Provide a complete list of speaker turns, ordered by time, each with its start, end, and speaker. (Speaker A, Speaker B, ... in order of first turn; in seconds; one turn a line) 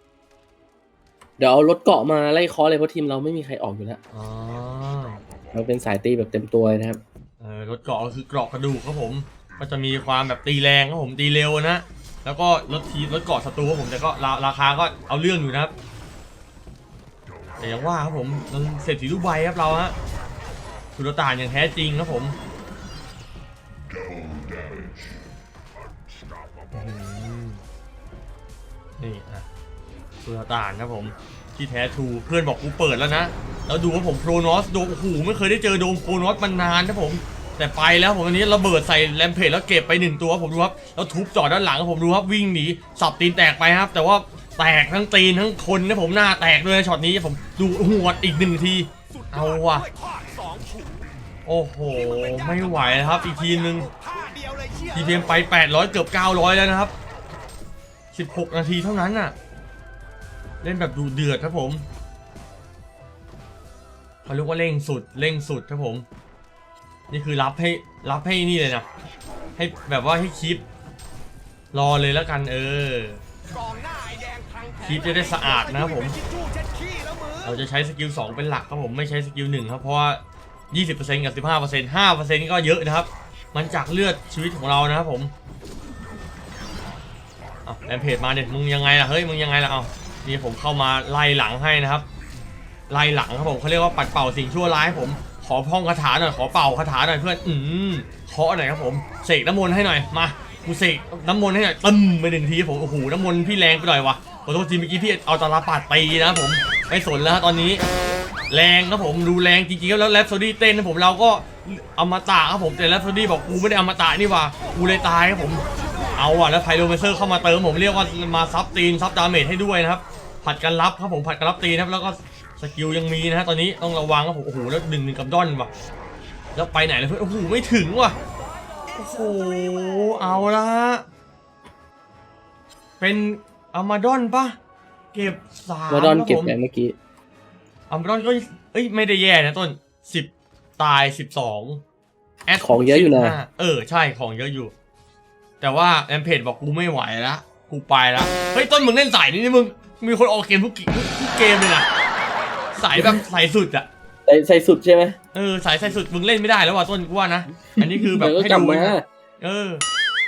Speaker A: 1.4-4.0
Speaker B: 4.1-5.2
Speaker A: 5.5-7.0
Speaker B: 7.4-15.7
Speaker B: 17.6-19.9
Speaker B: 20.9-22.4
Speaker B: 26.7-27.6
Speaker B: 29.0-29.4
Speaker B: 30.2-49.9
Speaker C: 49.3-50.8
Speaker B: 51.5-53.9
Speaker C: 51.9-54.9
Speaker B: 54.9-56.9
Speaker B: 58.1-59.3
Speaker B: 60.6-61.8
Speaker B: 64.2-66.0
Speaker B: 67.1-68.8
Speaker B: 69.6-70.6
Speaker B: 71.7-73.2
Speaker C: 73.5-77.4
Speaker B: 74.8-76.2
Speaker B: 77.4-85.3
Speaker B: 87.7-92.0
Speaker B: 92.9-107.8
Speaker B: 108.5-115.6
Speaker B: 116.2-125.7
Speaker B: 126.5-128.2
Speaker B: 128.9-131.0
Speaker B: 133.0-134.6
Speaker B: 135.1-136.5
Speaker A: 135.9-136.9
Speaker B: 137.9-141.8
Speaker B: 142.4-144.7
Speaker A: 142.6-143.4
Speaker B: 145.6-151.9
Speaker B: 152.7-153.9
Speaker A: 154.2-155.2
Speaker B: 155.3-159.8
Speaker A: 157.8-159.0